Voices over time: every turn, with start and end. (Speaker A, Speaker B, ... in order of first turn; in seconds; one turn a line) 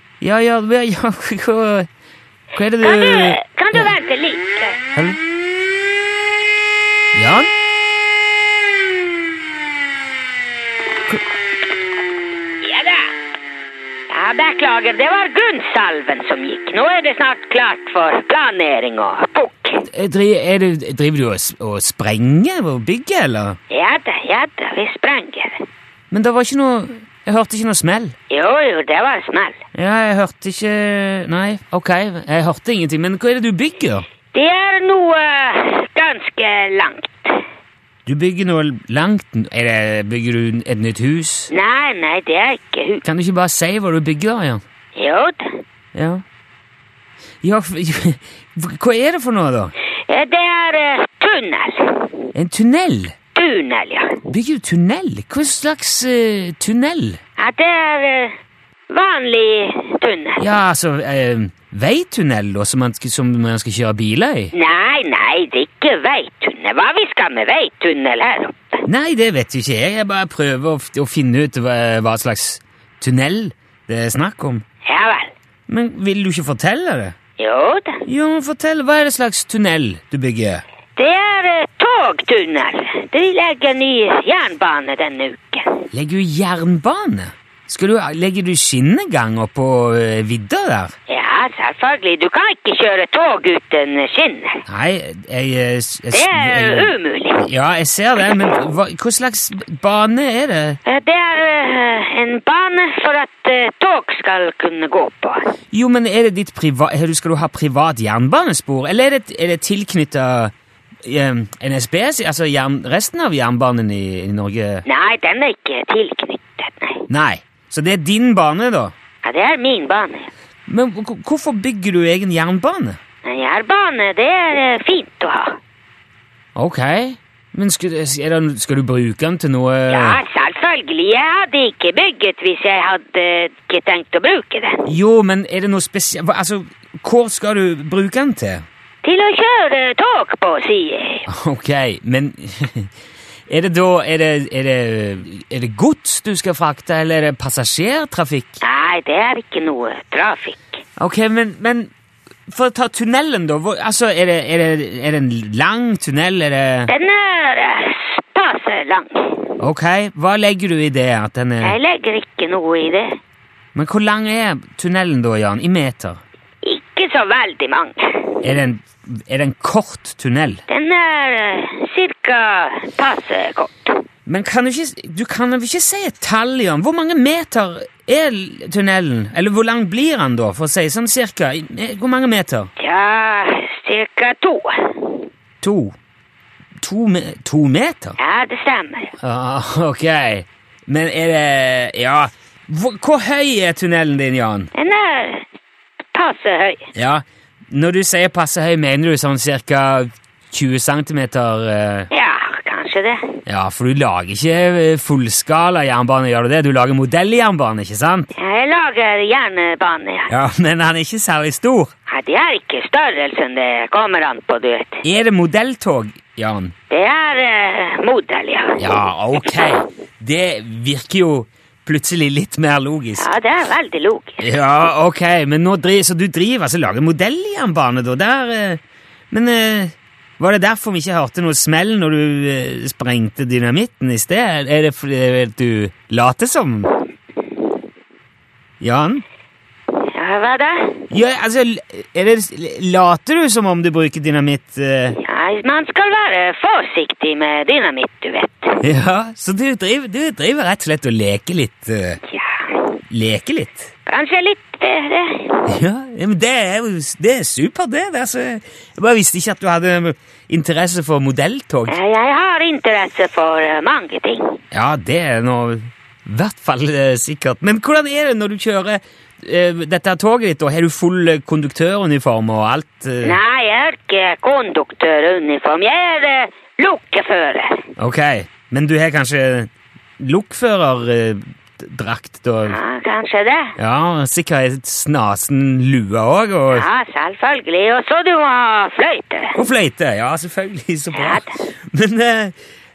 Speaker A: 0.2-1.9
Speaker A: 2.5-3.9
Speaker B: 2.8-4.8
Speaker A: 7.1-7.5
Speaker B: 12.6-13.1
Speaker B: 14.1-19.9
Speaker A: 19.9-23.6
Speaker B: 23.7-25.6
Speaker A: 26.1-28.1
Speaker B: 28.3-29.6
Speaker A: 29.8-34.1
Speaker B: 34.3-37.4
Speaker A: 38.1-41.5
Speaker B: 41.5-43.0
Speaker A: 43.0-44.6
Speaker B: 45.0-45.6
Speaker A: 46.0-46.2
Speaker A: 47.4-49.7
Speaker B: 50.1-52.2
Speaker A: 52.4-53.2
Speaker B: 53.4-54.2
Speaker A: 54.3-57.2
Speaker B: 57.4-58.3
Speaker B: 58.9-60.4
Speaker A: 60.4-64.5
Speaker B: 64.5-68.8
Speaker A: 68.9-74.6
Speaker B: 74.8-75.3
Speaker A: 75.7-77.2
Speaker B: 77.4-78.0
Speaker A: 78.1-80.6
Speaker B: 81.0-85.9
Speaker A: 85.9-90.9
Speaker B: 91.1-94.6
Speaker A: 94.7-100.8
Speaker B: 96.1-97.4
Speaker B: 100.8-105.5
Speaker A: 105.7-110.5
Speaker A: 111.0-114.8
Speaker B: 114.9-117.1
Speaker A: 117.1-118.9
Speaker B: 119.2-120.3
Speaker A: 120.7-123.0
Speaker B: 123.2-125.6
Speaker A: 126.6-130.2
Speaker B: 129.9-134.8
Speaker A: 134.9-138.7
Speaker B: 139.0-141.3
Speaker A: 141.3-142.9
Speaker A: 143.5-148.6
Speaker B: 148.6-150.8
Speaker A: 151.0-151.9
Speaker A: 152.5-156.9
Speaker B: 156.9-159.5
Speaker A: 159.6-161.8
Speaker B: 161.6-163.2
Speaker A: 163.8-166.2
Speaker B: 166.6-168.4
Speaker A: 168.4-170.6
Speaker B: 170.7-174.0
Speaker A: 174.3-182.7
Speaker B: 182.8-185.2
Speaker A: 185.6-185.9
Speaker A: 186.8-188.2
Speaker B: 188.2-189.1
Speaker A: 189.2-194.7
Speaker B: 194.7-195.5
Speaker B: 196.1-196.9
Speaker A: 196.9-202.1
Speaker B: 202.1-203.4
Speaker A: 203.5-208.3
Speaker B: 208.4-210.3
Speaker A: 210.3-211.9
Speaker B: 212.1-215.0
Speaker A: 215.0-216.7
Speaker B: 216.9-218.8
Speaker A: 218.8-223.3
Speaker B: 223.2-224.4
Speaker A: 224.4-236.9
Speaker A: 238.8-239.2
Speaker B: 240.0-241.1
Speaker A: 241.1-245.2
Speaker B: 245.2-248.8
Speaker A: 248.8-252.2
Speaker B: 252.3-252.9
Speaker A: 253.1-253.9
Speaker B: 254.1-255.7
Speaker A: 255.7-262.0
Speaker B: 261.9-264.6
Speaker A: 264.7-273.4
Speaker B: 273.2-277.8
Speaker A: 278.0-282.8
Speaker B: 282.7-283.8
Speaker A: 283.8-286.9
Speaker B: 286.7-289.6
Speaker A: 289.6-292.6
Speaker B: 291.1-291.5